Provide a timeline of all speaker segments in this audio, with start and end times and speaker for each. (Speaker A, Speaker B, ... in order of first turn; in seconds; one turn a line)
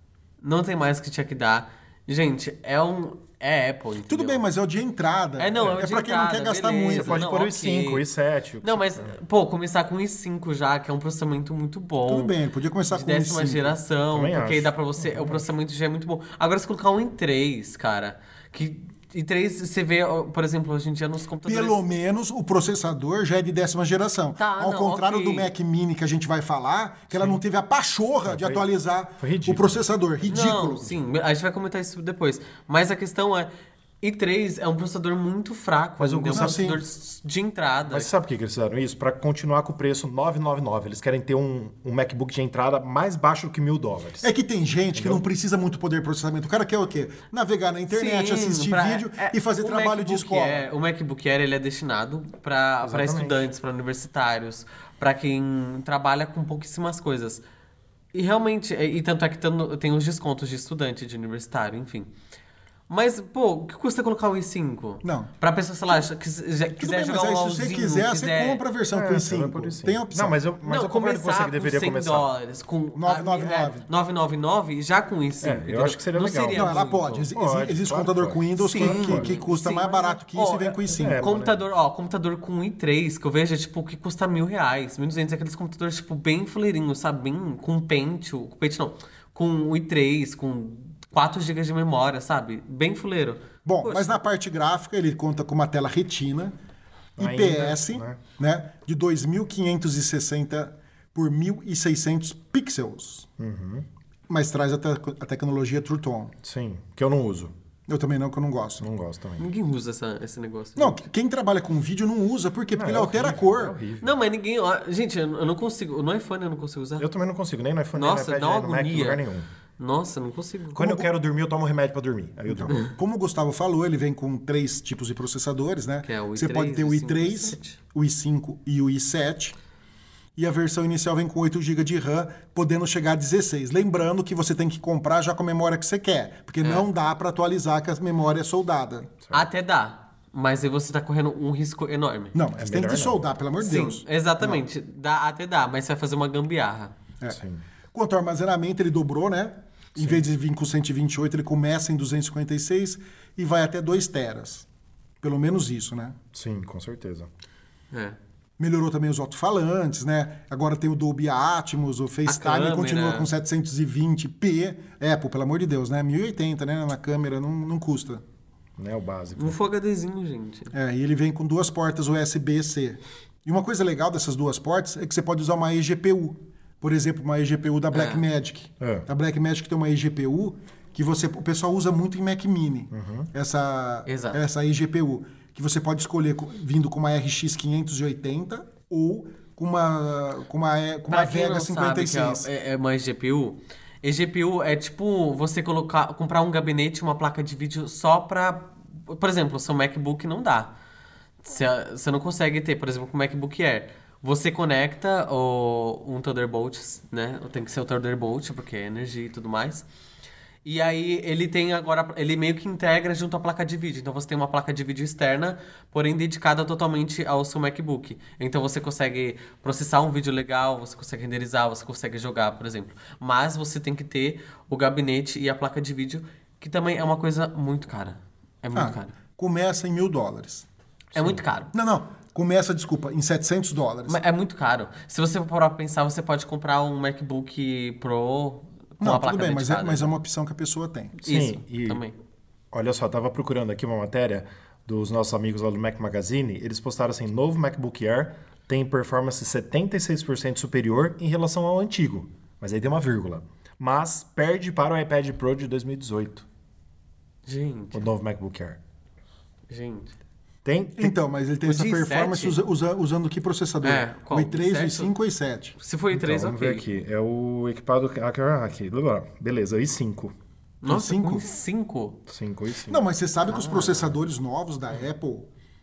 Speaker A: 0.4-4.4
Speaker B: 4.1-7.2
Speaker A: 5.4-8.0
Speaker C: 6.9-9.1
Speaker A: 8.6-12.3
Speaker B: 12.1-13.8
Speaker A: 12.9-21.8
Speaker C: 14.1-15.4
Speaker B: 21.4-30.9
Speaker A: 24.4-25.5
Speaker C: 27.1-27.4
Speaker C: 28.2-28.6
Speaker C: 29.2-29.8
Speaker A: 30.2-33.5
Speaker A: 34.0-38.1
Speaker C: 36.0-36.6
Speaker B: 36.3-36.8
Speaker C: 37.9-44.3
Speaker B: 44.2-50.6
Speaker C: 44.9-45.2
Speaker A: 47.9-57.4
Speaker C: 52.8-53.4
Speaker A: 58.1-62.1
Speaker A: 62.9-68.6
Speaker B: 65.0-65.3
Speaker B: 66.8-70.4
Speaker C: 68.9-72.3
Speaker A: 70.6-77.2
Speaker B: 72.9-73.9
Speaker C: 75.4-79.3
Speaker B: 76.5-81.4
Speaker A: 78.6-94.2
Speaker C: 80.9-81.6
Speaker B: 93.6-96.5
Speaker C: 97.2-98.2
Speaker B: 97.2-103.3
Speaker C: 103.4-103.8
Speaker B: 104.3-106.3
Speaker C: 106.4-107.5
Speaker B: 107.9-108.9
Speaker C: 108.8-109.5
Speaker A: 109.4-111.0
Speaker B: 110.8-113.8
Speaker C: 112.7-114.1
Speaker A: 114.0-117.1
Speaker C: 117.0-119.5
Speaker A: 117.9-119.2
Speaker A: 119.8-120.9
Speaker C: 120.7-122.8
Speaker B: 120.8-121.0
Speaker B: 122.5-129.5
Speaker A: 126.0-127.8
Speaker B: 130.4-139.1
Speaker A: 139.3-142.3
Speaker B: 142.3-144.6
Speaker C: 142.6-143.2
Speaker A: 143.6-146.9
Speaker C: 147.3-147.6
Speaker B: 147.9-154.6
Speaker C: 150.0-150.2
Speaker B: 155.2-156.2
Speaker C: 156.3-157.3
Speaker A: 157.9-158.2
Speaker B: 158.6-168.2
Speaker A: 162.2-163.3
Speaker C: 168.8-169.6
Speaker A: 169.4-170.7
Speaker B: 170.7-192.5
Speaker A: 177.9-178.2
Speaker C: 178.8-179.1
Speaker C: 182.9-183.3
Speaker A: 184.1-184.4
Speaker A: 191.1-200.7
Speaker A: 201.4-209.8
Speaker A: 210.6-229.1
Speaker B: 228.7-230.7
Speaker A: 231.1-231.7
Speaker C: 231.2-231.4
Speaker B: 231.7-234.2
Speaker A: 234.1-240.1
Speaker B: 239.0-241.2
Speaker A: 241.2-242.2
Speaker C: 241.2-242.0
Speaker C: 242.7-256.4
Speaker A: 257.4-258.1
Speaker C: 257.9-258.8
Speaker A: 259.7-260.1
Speaker C: 260.6-261.2
Speaker B: 261.0-265.8
Speaker A: 261.6-262.6
Speaker A: 263.8-265.1
Speaker A: 265.8-266.9
Speaker C: 266.1-270.3
Speaker A: 270.8-272.2
Speaker B: 270.9-271.4
Speaker C: 272.3-273.1
Speaker B: 272.9-275.5
Speaker A: 273.5-274.1